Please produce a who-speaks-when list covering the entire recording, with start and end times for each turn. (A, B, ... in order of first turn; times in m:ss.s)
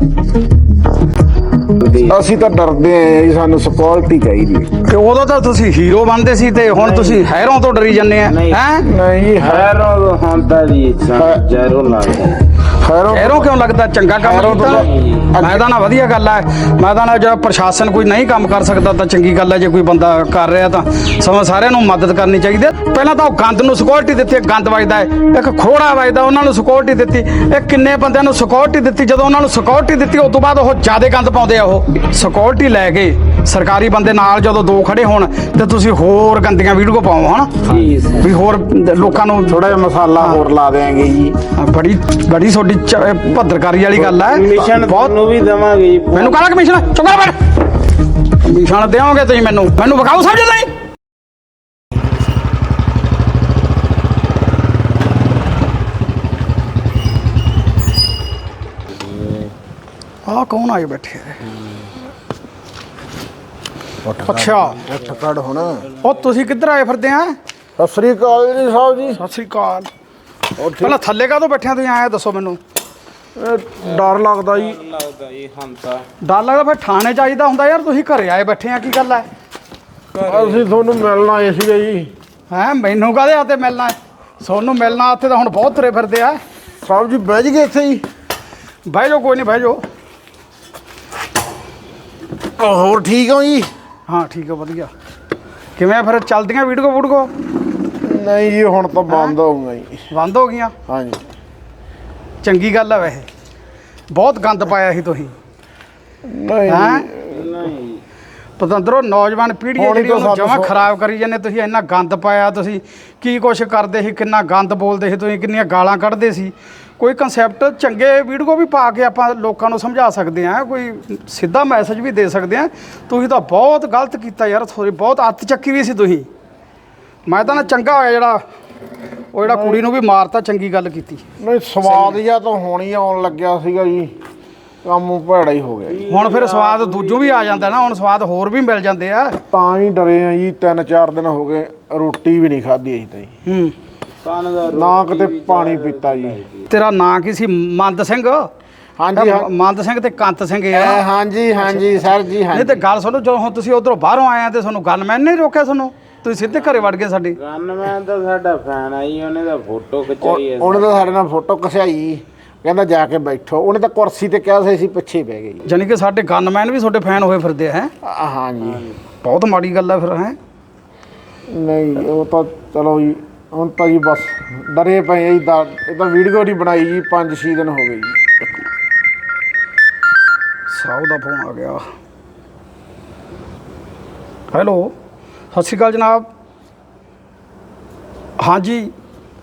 0:01.7-0:02.1 A
0:02.0-0:04.7 B
0:04.9-0:08.9 C
0:06.6-0:07.2 A
0:08.2-0:08.6 A
0:08.8-0:09.7 B
0:09.4-0:12.4 A
0:11.1-0:11.4 B
0:12.6-0:13.5 B
0:13.1-0:14.8 C
0:14.2-0:15.7 B
0:14.5-0:15.3 A
0:15.4-0:37.5 C
0:37.6-0:38.4 A
0:38.2-0:40.4 C
0:39.4-0:41.4 B
0:41.5-0:45.1 C
0:44.0-0:46.6 A
0:46.1-0:47.5 C
0:48.3-0:50.7 C
0:59.0-0:59.5 A
1:00.2-1:01.4 C
1:04.0-1:05.9 B
1:04.2-1:04.8 C
1:06.0-1:07.4 C
1:07.8-1:09.2 B
1:09.2-1:09.9 C
1:10.6-1:11.0 B
1:10.7-1:12.6 C
1:13.4-1:14.8 B
1:13.8-1:16.1 A
1:16.2-1:19.2 C
1:20.1-1:20.6 A
1:20.2-1:22.1 B
1:22.5-1:26.4 C
1:26.8-1:28.0 B
1:28.8-1:29.8 C
1:32.6-1:33.7 B
1:34.1-1:34.9 C
1:35.8-1:37.3 C
1:38.0-1:40.1 B
1:39.1-1:39.3 C
1:40.1-1:40.7 C
1:40.9-1:41.2 B
1:42.4-1:43.3 C
1:44.1-1:45.3 C
1:46.2-1:47.6 B
1:46.7-1:47.1 C
1:47.3-1:48.0 A
1:48.6-2:06.3 C
1:49.8-1:50.8 B
2:07.2-2:08.4 C
2:09.3-2:11.2 C
2:09.4-2:09.8 B
2:11.4-2:14.1 B
2:11.8-2:12.2 C
2:14.8-2:16.0 B
2:15.9-2:18.1 A
2:16.1-2:19.4 C
2:19.5-2:23.3 B
2:23.4-2:23.7 C
2:24.2-2:26.7 A
2:24.6-2:26.4 B
2:26.7-2:28.5 C
2:29.0-2:29.5 B
2:29.1-2:31.0 C
2:30.7-2:32.8 B
2:32.5-2:37.4 C
2:36.5-2:41.0 A
2:40.2-2:45.7 B
2:45.6-2:47.9 C
2:48.0-2:48.8 B
2:48.6-2:49.0 A
2:49.2-2:50.4 C
2:51.5-2:58.4 B
3:00.7-3:01.9 C
3:04.5-3:04.9 C
3:05.5-3:06.3 C
3:08.4-3:08.9 C